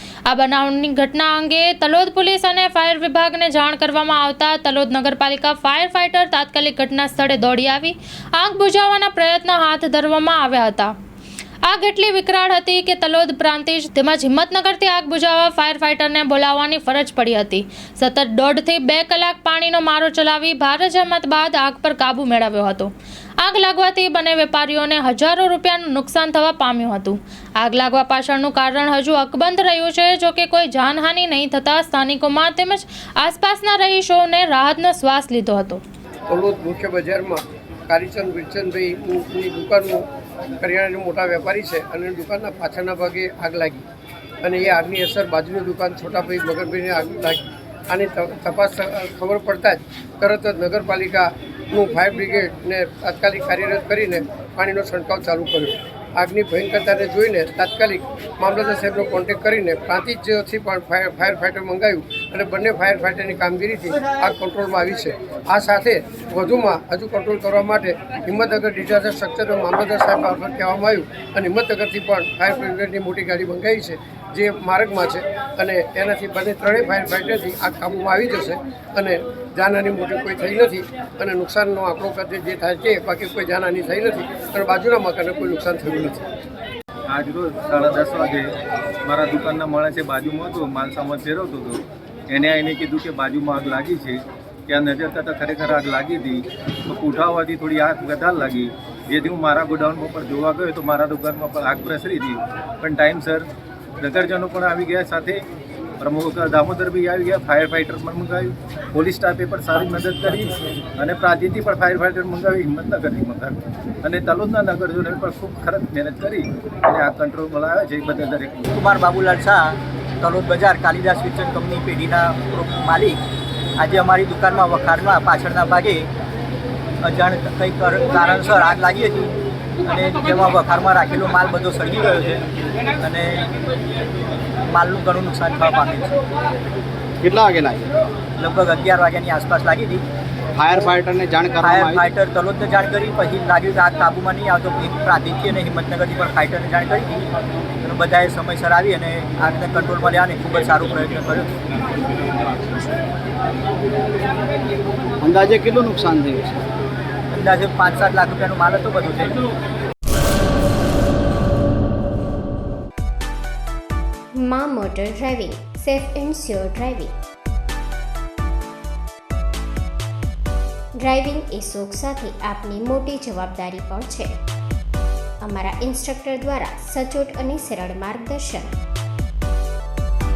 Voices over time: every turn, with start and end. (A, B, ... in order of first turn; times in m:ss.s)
0:00.3-0:10.9 A
0:11.6-0:35.8 A
0:36.3-0:40.0 B
0:40.6-0:43.8 B
0:44.4-1:26.3 B
1:27.1-1:28.5 C
1:29.1-1:43.5 C
1:44.0-1:45.4 C
1:46.0-1:58.7 C
1:58.7-2:03.2 D
2:03.8-2:06.1 D
2:07.0-2:09.3 D
2:09.8-2:12.4 D
2:13.0-2:13.5 D
2:14.7-2:16.2 D
2:17.2-2:17.9 E
2:18.4-2:20.0 D
2:20.6-2:22.1 E
2:21.6-2:27.3 D
2:27.8-2:31.5 D
2:35.2-2:36.6 E
2:37.3-2:39.4 D
2:44.4-2:47.1 F
2:51.0-2:54.3 F
2:55.4-2:58.7 F